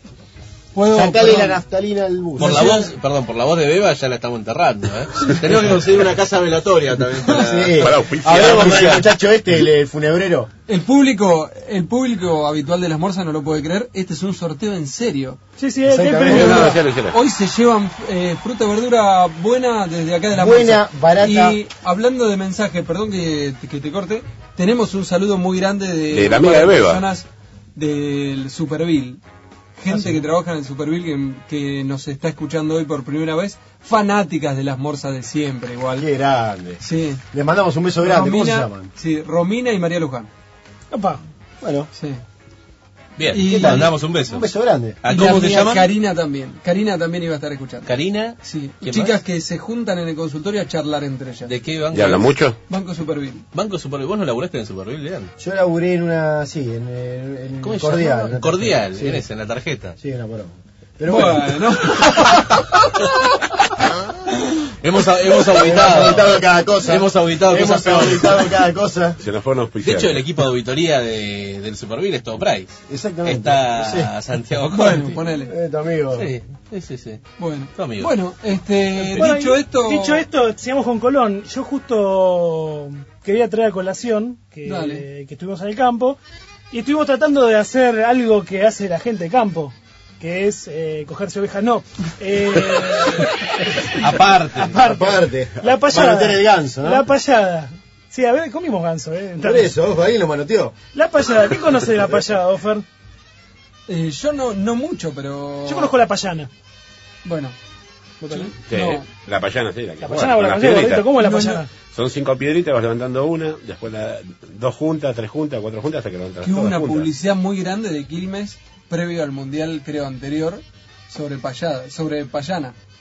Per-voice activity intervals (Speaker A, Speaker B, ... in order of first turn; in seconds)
Speaker A: 0.7-1.6, 2.4-2.8, 10.7-15.4, 16.3-29.2, 29.8-36.1, 36.8-37.2, 38.0-40.3, 42.0-42.2, 43.3-43.9, 45.1-47.9, 48.4-51.5, 52.7-53.5, 61.1-62.4, 74.7-75.5, 77.4-80.2, 84.6-85.0, 103.9-105.9, 107.2-107.6, 108.3-109.1, 111.2-111.6, 116.4-122.8
Speaker B: 0.9-2.9, 7.3-10.5, 15.9-16.8, 20.3-21.6, 36.0-38.9, 41.6-41.9, 43.4-45.0, 55.4-59.2, 60.0-61.6, 65.5-69.2, 72.9-74.1, 75.5-76.3, 94.8-97.1, 99.4-100.8
Speaker C: 2.4-9.1, 43.2-44.5, 45.0-45.9, 47.9-49.1, 51.5-52.3, 53.5-55.3, 57.6-60.0, 64.8-68.5, 69.8-75.2, 76.1-77.2, 77.8-78.1, 79.0-79.3, 94.0-94.8
Speaker D: 7.8-9.0, 16.5-17.2, 26.1-27.0, 51.9-52.6, 69.2-70.2, 108.7-111.1, 111.9-117.1
Speaker E: 15.6-16.8, 40.9-41.2, 79.2-86.2, 86.7-94.0, 94.6-99.7, 100.9-102.8, 105.7-106.5, 108.2-108.5, 110.0-111.7